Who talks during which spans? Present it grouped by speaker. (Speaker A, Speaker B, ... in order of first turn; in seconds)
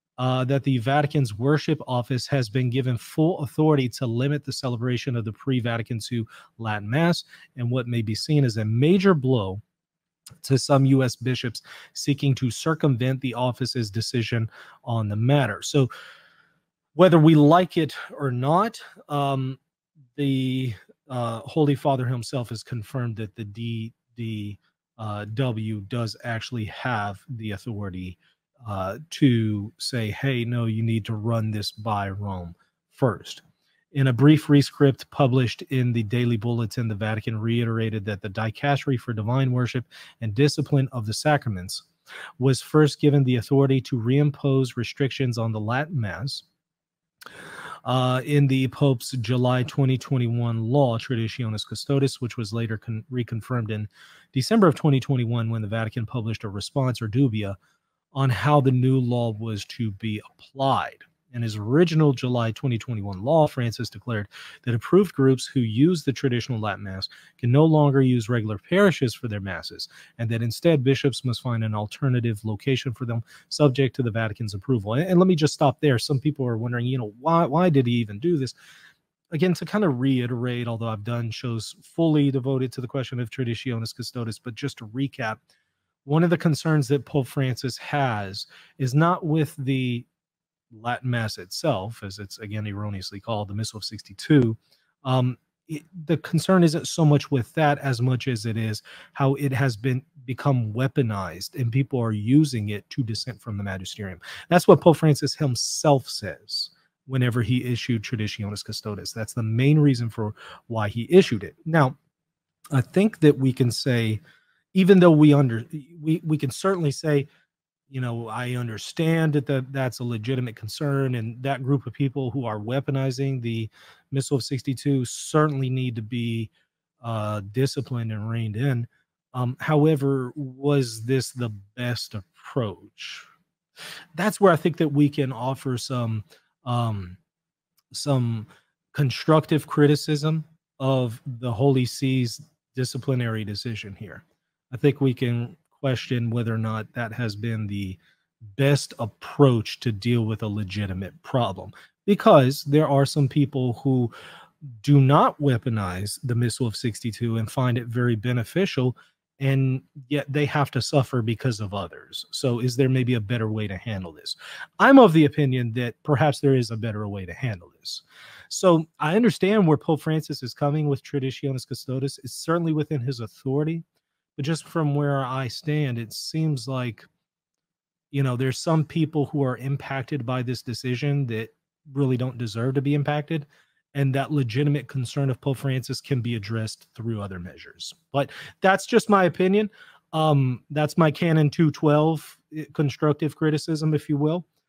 Speaker A: 0.2-9.6, 10.4-15.9, 16.9-19.6, 20.2-41.9, 42.4-46.5, 47.9-57.6, 58.1-78.6, 79.3-85.4, 86.0-90.1, 90.7-112.0, 112.7-114.2, 114.7-117.3, 117.9-133.3, 134.2-137.2, 137.9-148.0, 148.6-154.1, 154.8-173.8, 174.4-177.1, 178.1-194.4